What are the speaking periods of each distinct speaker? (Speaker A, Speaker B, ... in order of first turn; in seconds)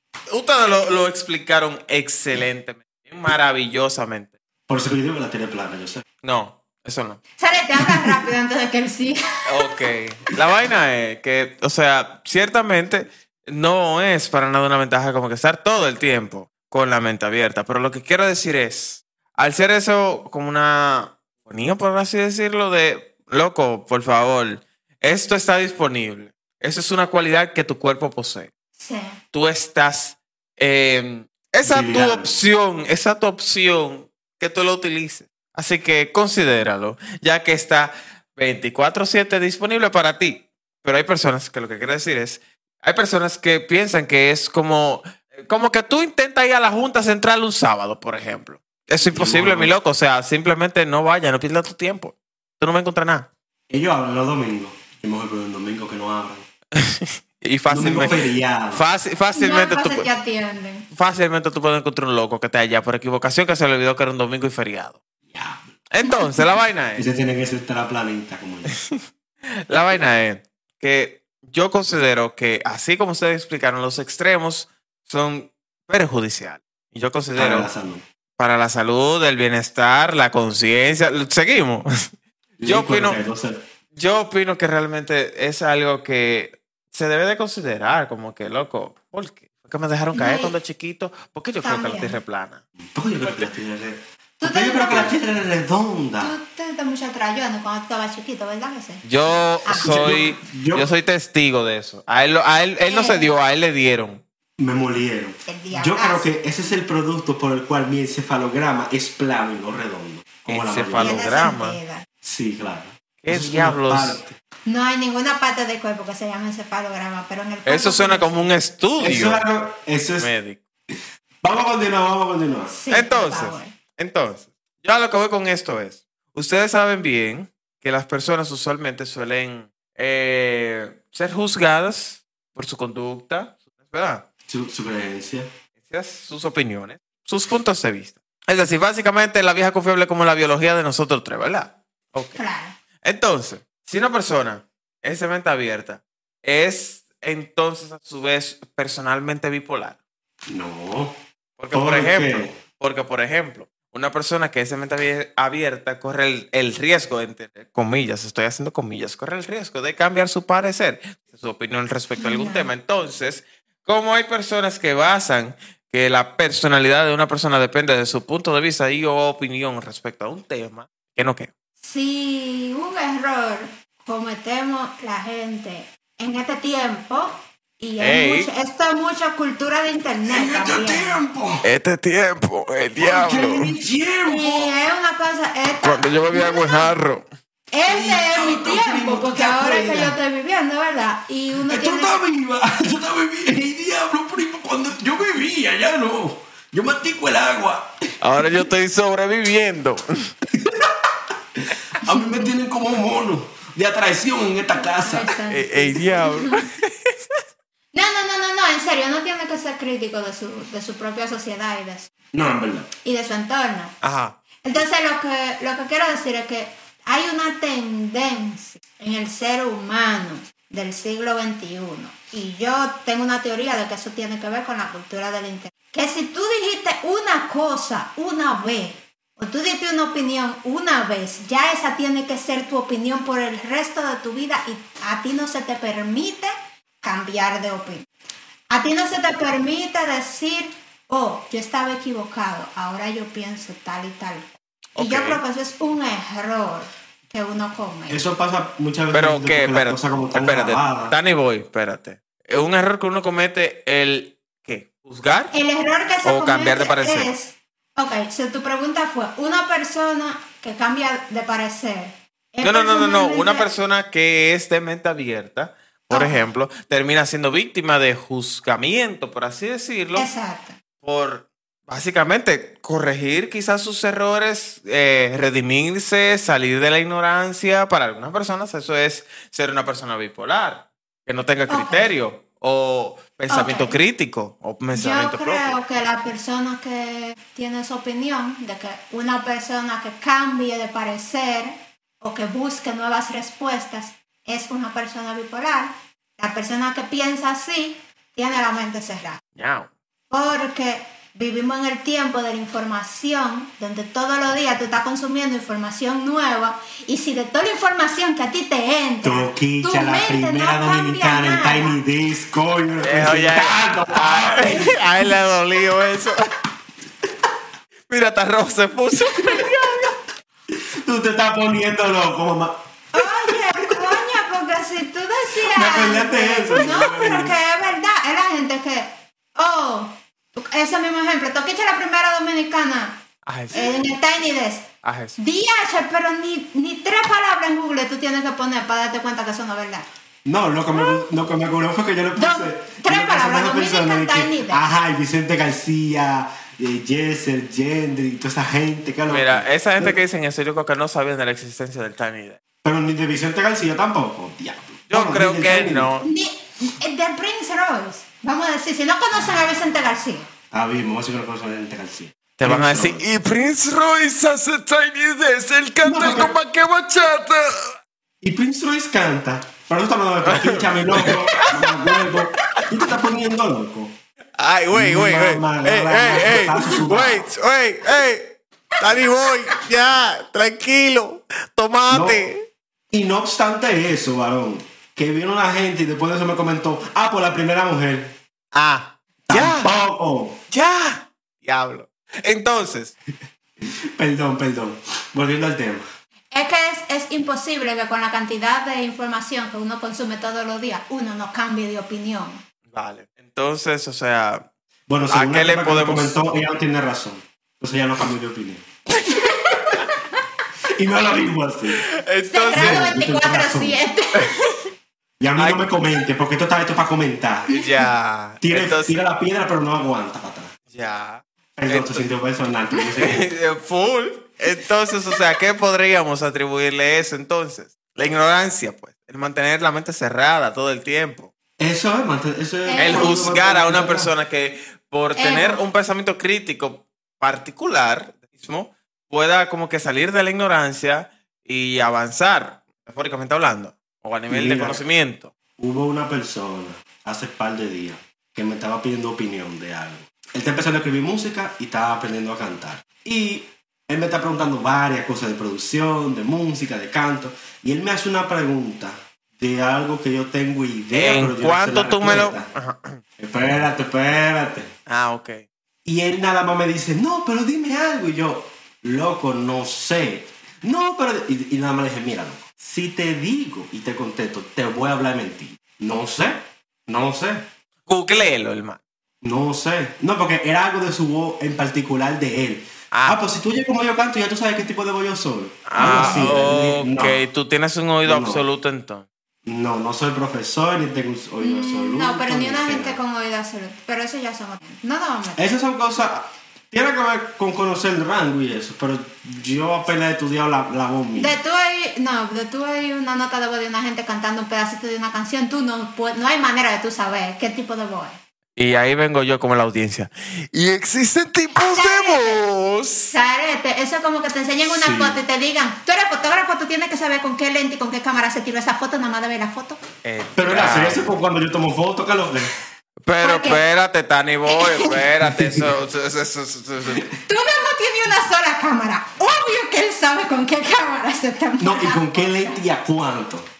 Speaker A: 0.3-4.3, 6.2-7.2, 9.5-28.5, 29.3-53.3, 56.7-60.1, 60.9-65.0, 65.9-67.0, 68.7-69.0, 69.7-77.7, 78.4-82.1, 82.6-83.2, 83.9-92.6, 99.0-104.2, 110.5-111.8, 113.2-114.2, 117.7-119.5, 120.2-120.6, 122.9-134.2, 135.8-142.4, 143.0-150.0, 151.6-171.5, 178.0-178.5, 181.6-183.7, 185.8-187.2, 198.2-200.3, 205.5-207.4, 214.0-214.4, 244.9-245.4, 249.1-255.5, 256.2-257.3, 262.6-270.3, 271.0-285.8, 299.5-299.9, 313.0-316.5, 318.1-320.1, 333.4-334.1, 335.0-335.4, 349.3-352.6, 355.1-356.3, 362.6-367.9, 370.4-372.9, 374.6-382.6, 388.7-389.9, 390.7-393.1, 402.9-404.7, 405.3-406.4, 412.0-413.1, 414.4-414.8, 415.6-415.9, 417.7-419.2, 420.9-422.3, 423.1-431.5, 433.0-445.5, 461.1-463.2, 465.1-465.6, 478.1-479.0, 483.1-483.4, 485.9-489.2, 508.8-513.3, 520.2-521.3, 523.2-527.3
Speaker B: 4.7-6.0, 31.6-32.3, 49.0-49.8, 53.7-56.5, 57.7-58.8, 65.3-65.8, 67.0-68.8, 77.3-78.0, 82.6-83.6, 92.8-96.3, 99.7-100.9, 104.6-111.3, 112.2-114.3, 119.0-120.3, 120.9-122.7, 134.5-135.5, 150.5-151.1, 151.7-152.5, 180.3-181.6, 183.0-184.7, 187.9-190.2, 191.7-198.0, 200.5-205.4, 212.3-212.9, 248.1-251.1, 309.2-315.0, 320.7-324.2, 325.6-327.6, 340.4-350.2, 352.8-356.1, 360.7-363.2, 366.0-366.5, 368.4-374.1, 374.9-377.5, 382.1-382.4, 383.1-388.3, 389.5-390.6, 393.8-396.0, 405.1-408.9, 410.8-412.0, 412.7-414.0, 415.4-417.8, 418.6-420.7, 421.8-423.4, 431.8-434.3, 444.5-445.0, 445.8-462.7, 463.4-464.9, 466.0-477.6, 479.4-487.4, 488.2-488.6, 489.6-493.2, 495.6-501.6, 514.8-515.4, 520.5-522.7, 525.5-525.9, 531.8-533.7
Speaker C: 7.4-9.7, 28.8-29.2, 59.3-60.9, 90.1-90.5, 91.6-92.2, 94.4-95.1, 96.2-99.1, 99.6-100.0, 102.8-103.3, 105.5-106.3, 111.0-112.0, 114.7-118.5, 122.7-123.7, 142.3-142.7, 162.2-162.7, 171.8-181.2, 184.2-186.9, 187.7-192.2, 202.0-202.5, 205.0-206.6, 207.9-212.1, 213.0-213.9, 214.6-238.1, 238.7-248.2, 255.5-263.7, 266.1-266.5, 270.1-270.8, 281.7-282.1, 283.5-284.0, 284.9-299.4, 300.3-312.0, 323.1-340.1, 340.9-341.2, 342.4-344.8, 356.2-360.5, 396.5-402.6, 409.3-410.4, 412.5-414.5, 432.9-433.5, 435.4-435.8, 486.0-486.5, 491.6-495.6, 501.4-508.4, 511.8-512.6, 513.3-520.0, 523.4-523.8, 524.7-525.2, 527.5-532.8